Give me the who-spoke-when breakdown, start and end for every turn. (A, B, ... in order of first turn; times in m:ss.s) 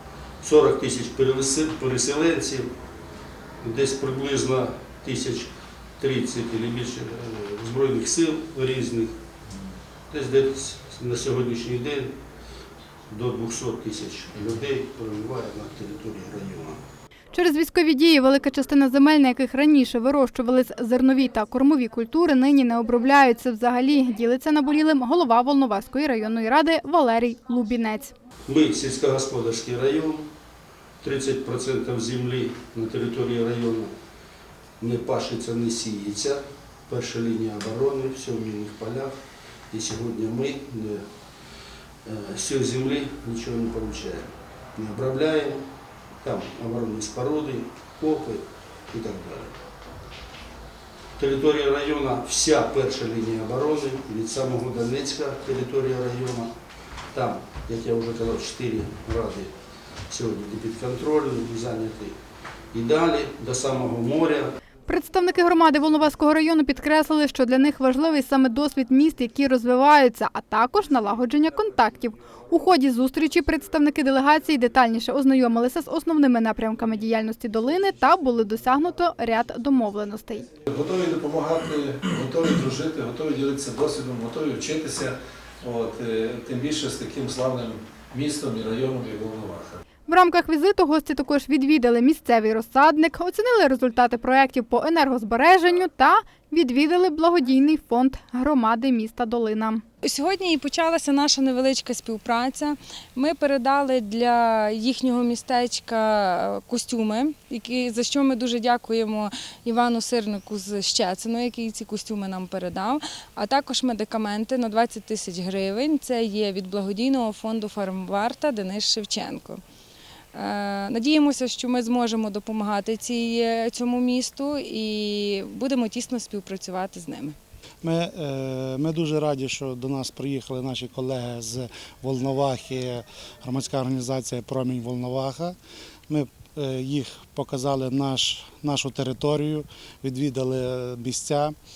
0:00.4-0:02.7 A
0:03.6-0:09.1 A
0:10.1-0:12.1 A
0:13.1-0:16.8 A
0:17.3-0:28.1 B
0:28.5-0:30.2 A
0:31.0-0:33.9 A
0:34.8-0:39.2 A
0:39.7-0:41.0 A
0:42.0-0:45.6 A
0:46.2-0:49.5 A
0:51.2-0:56.5 A
0:57.1-0:59.5 A
1:00.1-1:02.2 A
1:02.7-1:04.5 A
1:04.9-1:20.5 B
1:20.7-1:29.8 C
1:30.1-1:39.8 B
1:40.0-1:59.6 D
2:00.3-2:07.4 D
2:07.8-2:15.6 E
2:16.1-2:21.6 E